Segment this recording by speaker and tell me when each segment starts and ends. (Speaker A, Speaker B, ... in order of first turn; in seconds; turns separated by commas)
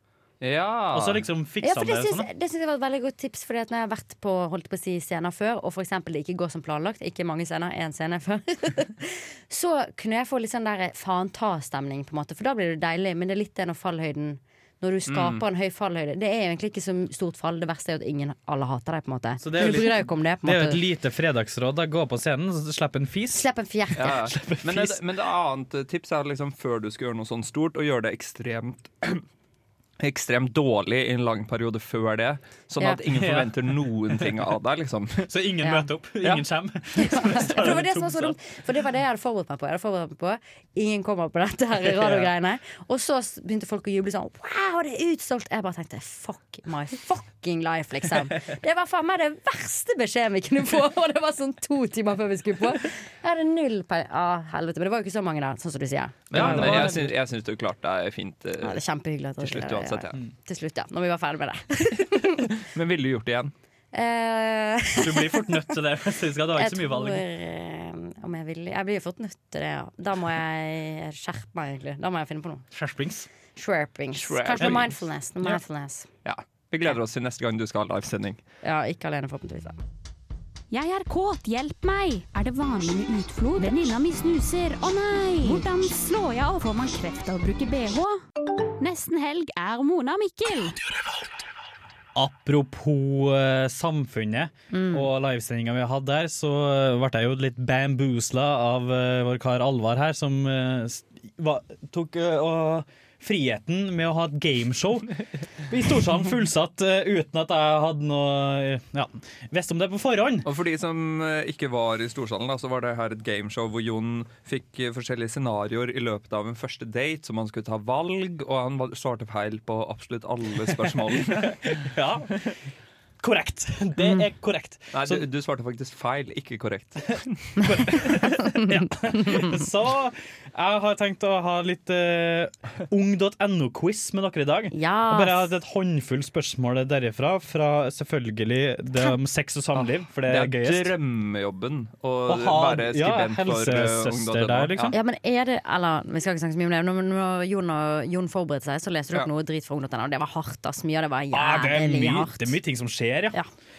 Speaker A: 0.4-1.2, Speaker B: 0.9-2.3, Speaker C: 1.6-20.8, Speaker A: 15.1-15.4, Speaker B: 19.4-25.0, Speaker C: 23.3-24.2, Speaker A: 23.9-29.2, Speaker A: 30.0-35.3, Speaker B: 33.1-34.3, Speaker B: 35.3-38.4, Speaker C: 35.6-35.9, Speaker C: 37.0-56.9, Speaker B: 41.8-42.3, Speaker A: 56.3-58.8, Speaker B: 56.3-57.1, Speaker C: 58.6-62.5, Speaker A: 59.4-60.2, Speaker A: 62.4-63.5, Speaker C: 63.9-65.5, Speaker B: 65.0-67.2, Speaker C: 66.5-72.6, Speaker B: 72.7-73.3, Speaker C: 73.5-76.1, Speaker A: 74.1-74.9, Speaker B: 74.6-74.9, Speaker A: 76.2-78.4, Speaker C: 78.6-79.8, Speaker D: 80.7-88.2, Speaker D: 88.8-90.8, Speaker B: 92.1-105.2, Speaker C: 94.7-95.0, Speaker B: 105.7-110.5, Speaker A: 110.5-121.6, Speaker B: 120.7-122.5, Speaker B: 123.2-125.2, Speaker A: 124.9-128.0, Speaker B: 127.6-140.9, Speaker C: 128.4-129.6, Speaker C: 134.7-135.5, Speaker A: 139.7-144.9, Speaker B: 142.3-145.0, Speaker C: 144.9-152.6, Speaker B: 151.3-153.4